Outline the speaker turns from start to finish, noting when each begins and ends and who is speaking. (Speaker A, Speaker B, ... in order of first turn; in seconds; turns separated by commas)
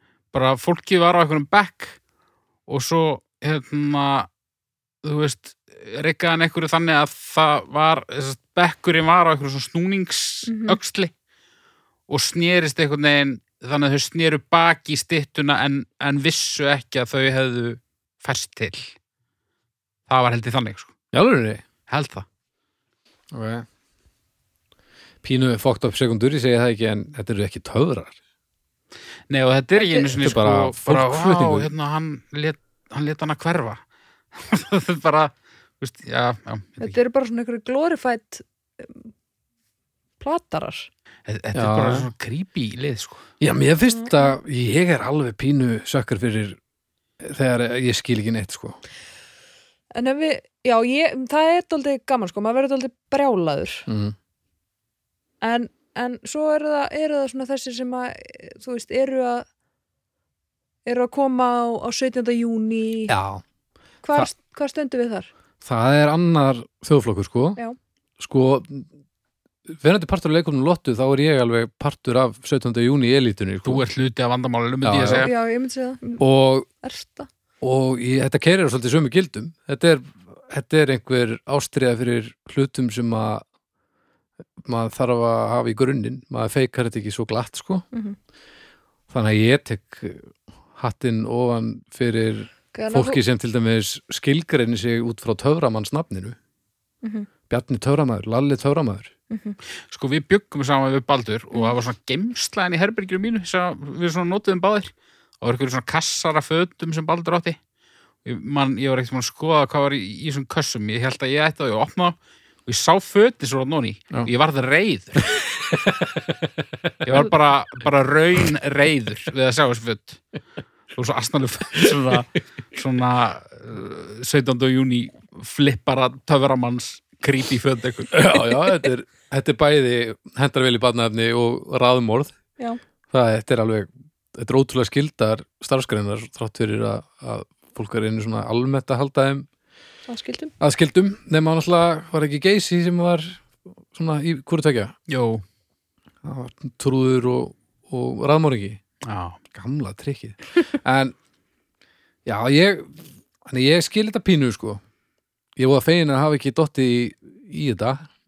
Speaker A: 0.3-2.0, Speaker A: 2.7-4.3, Speaker A: 5.0-11.1, Speaker B: 10.4-10.8, Speaker A: 12.1-18.9, Speaker A: 20.1-20.9, Speaker C: 21.1-21.6, Speaker A: 21.9-22.2, Speaker C: 23.3-23.6, Speaker C: 25.2-28.2, Speaker A: 29.3-33.8, Speaker B: 29.8-30.1, Speaker C: 30.2-31.7, Speaker A: 34.3-37.0, Speaker B: 36.8-39.1, Speaker B: 40.2-40.9, Speaker A: 41.3-43.2, Speaker C: 41.5-42.1, Speaker C: 43.4-46.6, Speaker B: 43.9-44.3, Speaker C: 47.2-48.8, Speaker B: 49.9-53.9, Speaker C: 53.9-54.1, Speaker B: 55.4-59.5, Speaker B: 60.9-63.1, Speaker C: 63.1-63.4, Speaker B: 64.0-65.3, Speaker C: 65.6-67.6, Speaker C: 68.2-68.9, Speaker C: 69.7-73.8, Speaker A: 73.6-75.3, Speaker C: 74.8-75.3, Speaker B: 75.0-76.2, Speaker C: 76.2-76.7, Speaker B: 76.8-77.3, Speaker C: 77.6-83.4, Speaker C: 84.6-87.8, Speaker B: 87.9-88.2, Speaker C: 89.1-96.3, Speaker B: 92.7-93.2, Speaker B: 97.0-97.3, Speaker C: 97.5-99.1, Speaker B: 99.3-99.6, Speaker A: 99.9-107.6, Speaker A: 108.2-115.2, Speaker C: 115.3-117.3, Speaker A: 117.0-120.2, Speaker A: 120.9-128.2, Speaker C: 121.7-122.2, Speaker C: 128.1-132.3, Speaker C: 133.1-139.5, Speaker B: 140.1-140.5, Speaker C: 140.6-144.9, Speaker A: 145.1-145.4, Speaker C: 146.2-148.8, Speaker A: 149.0-149.4, Speaker C: 149.5-151.1, Speaker C: 152.2-154.8, Speaker C: 155.6-158.1